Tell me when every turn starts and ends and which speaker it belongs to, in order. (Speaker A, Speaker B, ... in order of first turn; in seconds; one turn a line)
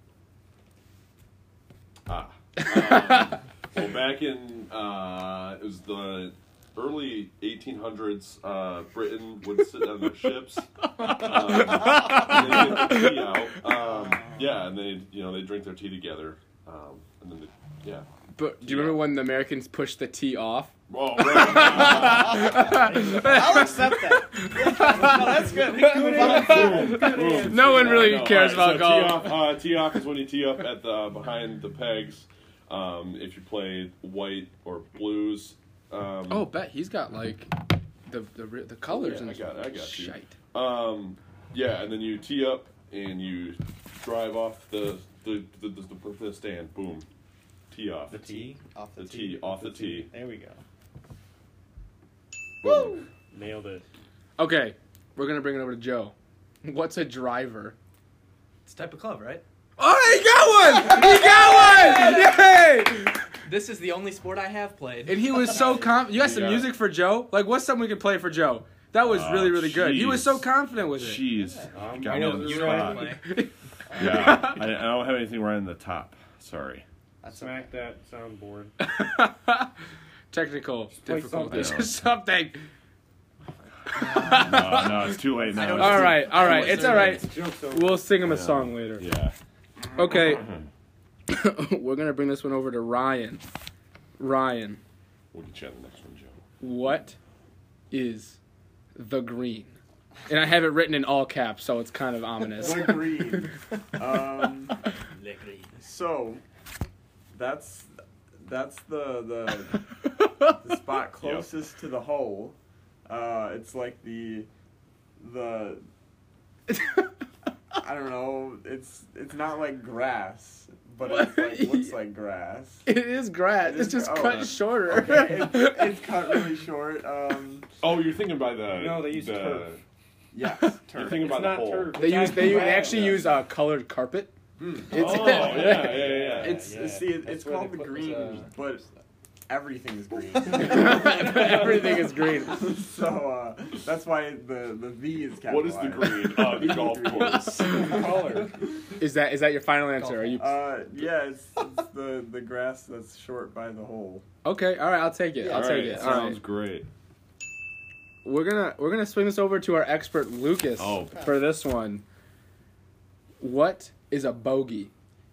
Speaker A: 2.1-18.1
Speaker B: 2.6-3.4
Speaker B: 11.0-13.3
Speaker C: 13.7-14.4
Speaker B: 18.4-29.6
Speaker A: 18.6-19.1
Speaker A: 20.9-22.9
Speaker C: 22.3-27.4
Speaker D: 25.4-28.3
Speaker A: 26.0-36.5
Speaker B: 36.3-37.5
Speaker B: 38.1-40.4
Speaker A: 38.9-47.1
Speaker A: 47.7-48.2
Speaker D: 48.1-48.6
Speaker C: 48.2-50.6
Speaker A: 49.0-50.1
Speaker A: 52.6-53.0
Speaker C: 52.6-53.0
Speaker D: 53.3-53.9
Speaker B: 54.4-57.8
Speaker E: 58.7-59.4
Speaker B: 59.8-63.3
Speaker E: 61.8-62.4
Speaker E: 63.5-65.8
Speaker B: 65.1-71.2
Speaker A: 66.1-66.7
Speaker A: 69.0-73.1
Speaker C: 71.3-71.7
Speaker D: 71.7-73.2
Speaker E: 72.0-73.2
Speaker B: 73.2-74.6
Speaker C: 74.0-74.3
Speaker A: 74.0-76.8
Speaker C: 77.2-77.8
Speaker D: 77.3-78.7
Speaker B: 78.8-79.7
Speaker B: 80.3-82.6
Speaker D: 80.9-81.8
Speaker A: 81.5-81.9
Speaker B: 83.9-89.1
Speaker C: 84.0-84.6
Speaker A: 84.0-87.3
Speaker E: 85.4-87.2
Speaker D: 85.4-88.1
Speaker A: 88.2-89.3
Speaker B: 90.0-90.5
Speaker A: 90.0-90.7
Speaker B: 91.3-93.4
Speaker B: 94.2-94.8
Speaker A: 95.3-96.4
Speaker B: 96.6-97.2
Speaker B: 97.9-98.4
Speaker B: 99.0-99.8
Speaker B: 100.3-103.1
Speaker F: 102.6-104.8
Speaker E: 105.2-105.7
Speaker F: 105.8-106.4
Speaker F: 107.3-109.9
Speaker F: 110.5-114.5
Speaker A: 111.2-111.5
Speaker F: 115.2-115.9
Speaker B: 116.7-117.0
Speaker F: 117.8-122.9
Speaker B: 121.0-122.0
Speaker B: 122.9-126.4
Speaker F: 123.6-127.7
Speaker A: 124.2-124.5
Speaker A: 127.8-129.8
Speaker D: 128.7-129.8
Speaker F: 130.3-131.4
Speaker A: 130.9-132.6
Speaker D: 131.1-133.3
Speaker B: 131.9-134.3
Speaker F: 134.6-138.8
Speaker A: 134.9-136.6
Speaker B: 134.9-136.1
Speaker D: 134.9-138.9
Speaker F: 139.5-148.5
Speaker B: 140.5-142.8
Speaker A: 145.4-147.9
Speaker B: 147.2-148.1
Speaker D: 147.8-148.5
Speaker B: 149.0-150.6
Speaker F: 150.4-154.2
Speaker B: 154.4-156.4
Speaker C: 155.4-156.2
Speaker A: 155.5-156.9
Speaker B: 158.2-162.0
Speaker A: 160.8-161.3
Speaker B: 163.4-164.9